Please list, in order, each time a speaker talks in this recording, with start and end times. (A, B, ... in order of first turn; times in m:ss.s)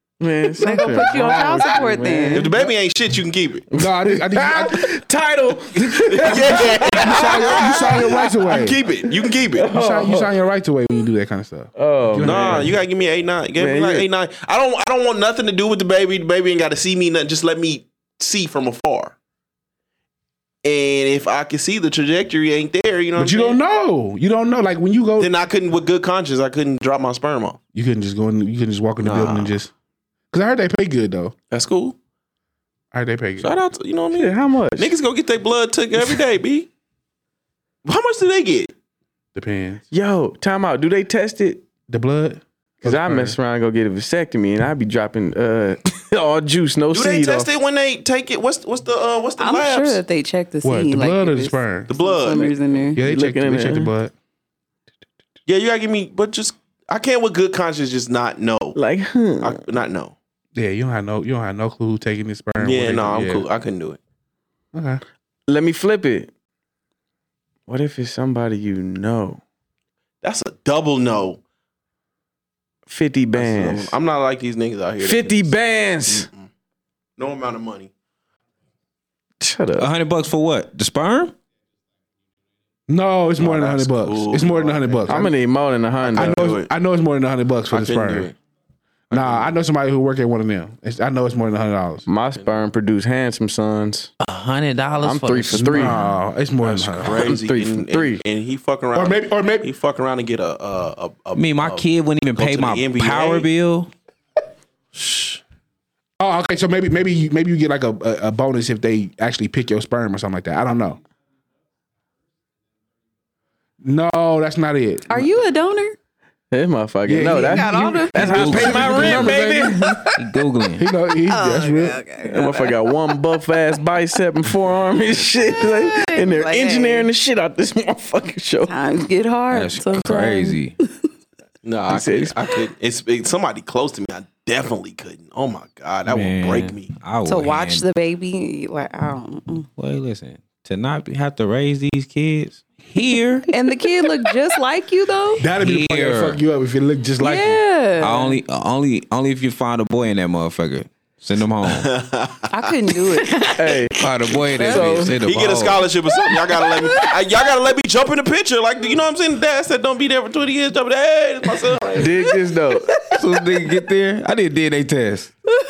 0:00.2-0:02.7 A
0:00.6-0:02.6 B
0:01.0-0:01.5 C
0:02.4-0:03.7 D
0:03.7-0:05.0 C
0:03.7-0:08.1 A
0:05.8-0:08.8 C
0:06.1-0:09.7 D
0:09.6-0:10.3 A
0:09.7-0:12.8 C
0:11.8-0:12.7 A
0:12.2-0:19.2 D
0:13.6-0:14.1 A
0:20.6-0:23.6 D
0:23.2-0:25.3 C
0:25.2-0:27.6 D
0:27.7-0:29.7 C
0:29.0-0:29.6 D
0:30.3-0:31.3 C
0:31.5-0:32.0 D
0:32.9-0:33.5 C
0:33.4-0:36.7 D
0:34.1-0:34.9 A
0:37.8-0:38.7 D
0:39.4-0:39.8 C
0:39.9-0:41.6 A
0:41.9-0:43.4 C
0:42.8-0:47.5 A
0:46.9-0:50.0 D
0:49.4-0:53.0 B
0:50.6-0:51.9 C
0:51.9-0:52.8 D
0:53.0-0:54.1 C
0:53.0-0:53.9 A
0:55.5-0:58.8 D
0:58.8-0:59.6 A
0:59.4-1:00.2 D
1:00.6-1:03.5 C
1:02.6-1:04.0 D
1:04.7-1:05.0 C
1:05.5-1:06.3 A
1:07.7-1:09.4 A
1:10.2-1:11.4 D
1:12.9-1:14.0 A
1:13.4-1:15.5 D
1:15.0-1:16.3 A
1:16.1-1:16.5 D
1:17.2-1:17.9 D
1:19.4-1:19.9 A
1:19.8-1:21.3 E
1:22.9-1:25.3 C
1:23.4-1:25.3 D
1:25.1-1:26.5 A
1:26.0-1:26.7 D
1:26.1-1:28.3 C
1:27.7-1:28.4 D
1:29.1-1:29.5 D
1:29.1-1:32.1 C
1:32.1-1:34.1 A
1:34.2-1:36.2 E
1:35.0-1:36.0 A
1:35.5-1:37.3 C
1:36.6-1:43.5 D
1:37.1-1:38.2 A
1:38.9-1:39.7 C
1:41.4-1:43.9 E
1:44.9-1:45.4 D
1:46.2-1:51.0 C
1:53.8-1:55.3 C
1:55.1-1:56.0 B
1:56.5-2:00.1 A
1:57.1-1:59.8 C
1:57.3-1:59.3 B
1:58.2-1:59.4 E
2:00.2-2:00.9 E
2:00.8-2:02.0 C
2:01.2-2:02.9 B
2:02.2-2:08.7 A
2:05.8-2:07.1 B
2:08.7-2:10.6 B
2:09.5-2:10.8 E
2:11.6-2:17.0 D
2:11.9-2:12.4 A
2:16.1-2:17.9 E
2:17.2-2:19.7 B
2:19.8-2:23.5 E
2:23.5-2:25.5 B
2:25.4-2:27.6 C
2:25.5-2:26.4 E
2:27.2-2:28.4 B
2:28.0-2:31.9 E
2:31.6-2:32.5 D
2:32.5-2:33.7 B
2:33.5-2:34.0 A
2:33.9-2:35.9 E
2:34.4-2:35.2 B
2:34.6-2:35.1 A
2:35.2-2:42.1 D
2:36.2-2:37.3 B
2:42.0-2:42.9 A
2:43.2-2:45.3 E